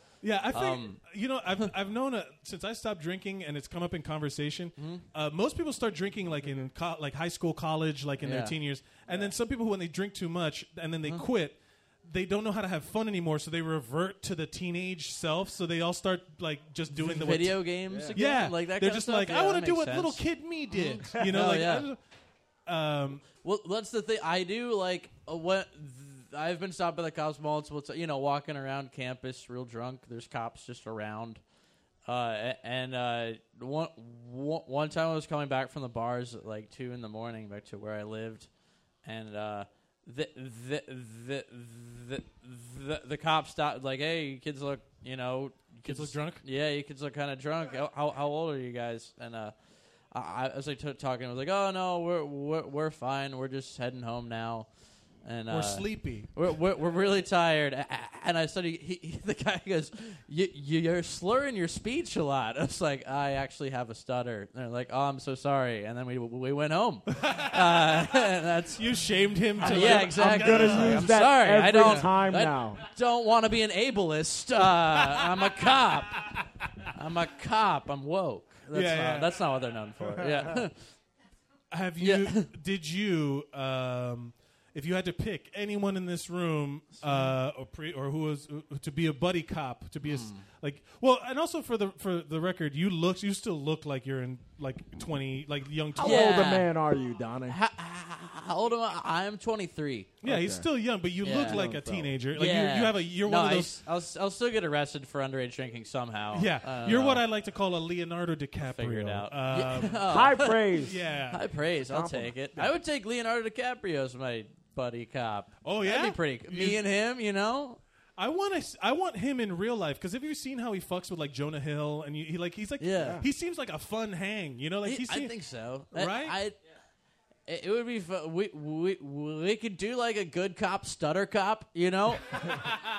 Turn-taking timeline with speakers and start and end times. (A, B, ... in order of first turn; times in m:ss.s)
0:00.2-0:22.0 A
0:00.5-0:01.0 B
0:04.8-0:05.0 B
0:08.2-0:08.5 B
0:16.9-0:21.9 B
0:17.9-0:18.2 C
0:22.7-0:23.2 A
0:23.3-0:31.4 B
0:32.0-0:38.5 B
0:39.0-0:49.5 B
0:45.8-0:46.4 A
0:50.1-0:54.7 B
0:55.2-1:08.8 B
0:55.5-0:56.4 A
1:07.1-1:07.9 A
1:08.8-1:12.1 A
1:09.6-1:16.2 B
1:09.6-1:12.8 C
1:17.0-1:20.7 B
1:18.7-1:19.3 A
1:20.0-1:20.6 C
1:21.7-1:36.4 A
1:22.0-1:22.5 B
1:27.0-1:27.3 B
1:30.0-1:30.4 B
1:36.0-1:37.6 C
1:36.0-1:36.7 B
1:37.4-1:40.2 B
1:40.2-1:40.6 C
1:40.2-1:43.8 A
1:41.2-1:47.2 B
1:41.3-1:42.1 C
1:46.3-1:50.3 A
1:48.6-1:50.7 B
1:50.1-1:51.0 C
1:50.8-1:51.4 A
1:51.3-1:57.8 B
1:51.9-1:52.7 C
1:55.6-1:56.8 A
1:58.2-2:05.3 A
2:02.8-2:03.2 B
2:02.9-2:03.2 C
2:04.8-2:06.6 B
2:05.9-2:06.4 A
2:07.5-2:12.7 B